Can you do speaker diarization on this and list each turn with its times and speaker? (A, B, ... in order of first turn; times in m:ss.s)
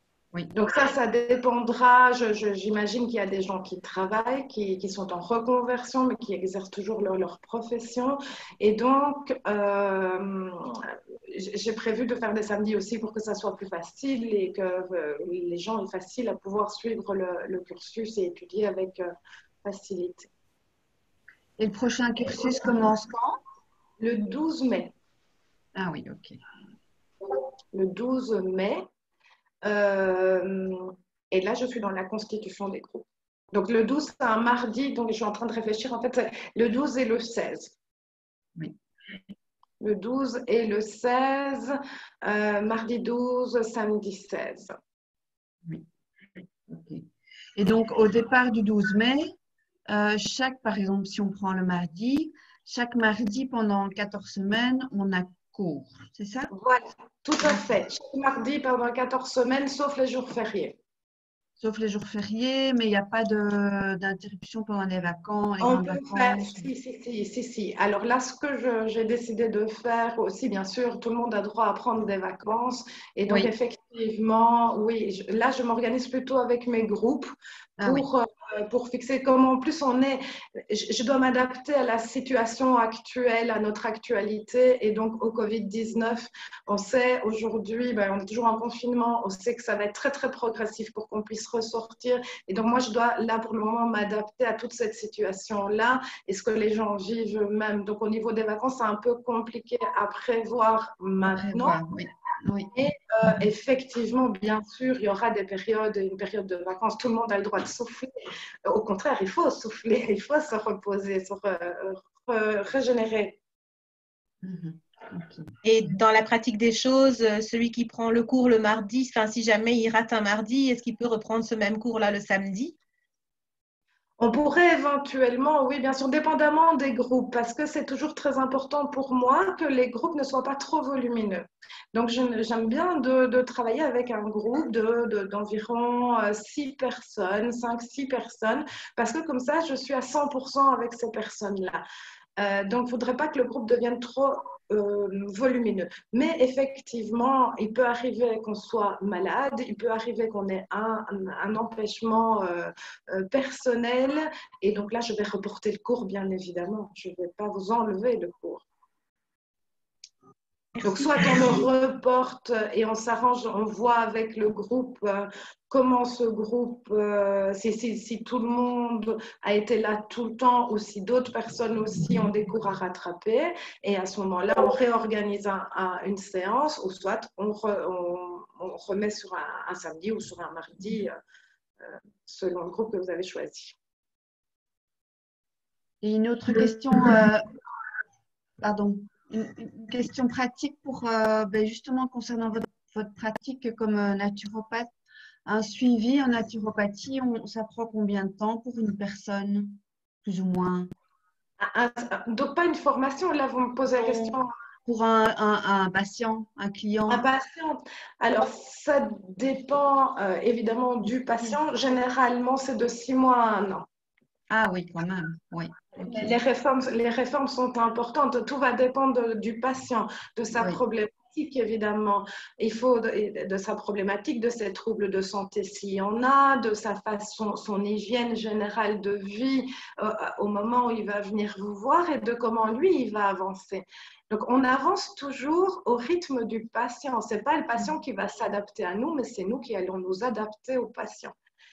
0:00.5-0:19.1 A
0:19.6-0:20.3 A
0:21.6-0:23.4 B
0:24.0-0:24.9 A
0:25.8-0:26.4 B
0:27.7-0:28.8 A
0:29.6-0:37.7 A
0:39.8-0:44.8 A
0:46.7-0:47.0 B
0:47.6-0:49.4 B
0:49.9-0:56.5 B
0:56.5-1:00.8 A
1:01.6-1:06.7 B
1:05.6-1:17.3 A
1:17.8-1:18.0 B
1:17.8-1:41.8 A
1:41.3-1:42.7 B
1:42.7-1:48.1 A
1:48.7-1:53.4 A
1:54.4-1:55.5 B
1:55.6-2:02.8 C
2:04.2-2:21.8 A
2:22.4-2:38.7 A
2:40.8-3:01.2 A
3:01.8-3:03.8 A
3:06.0-3:07.5 B
3:08.6-3:14.9 B
3:15.5-3:20.9 B
3:21.6-3:24.5 A
3:24.0-3:27.2 B
3:27.1-3:33.9 A
3:34.5-3:36.4 B
3:36.1-4:01.3 A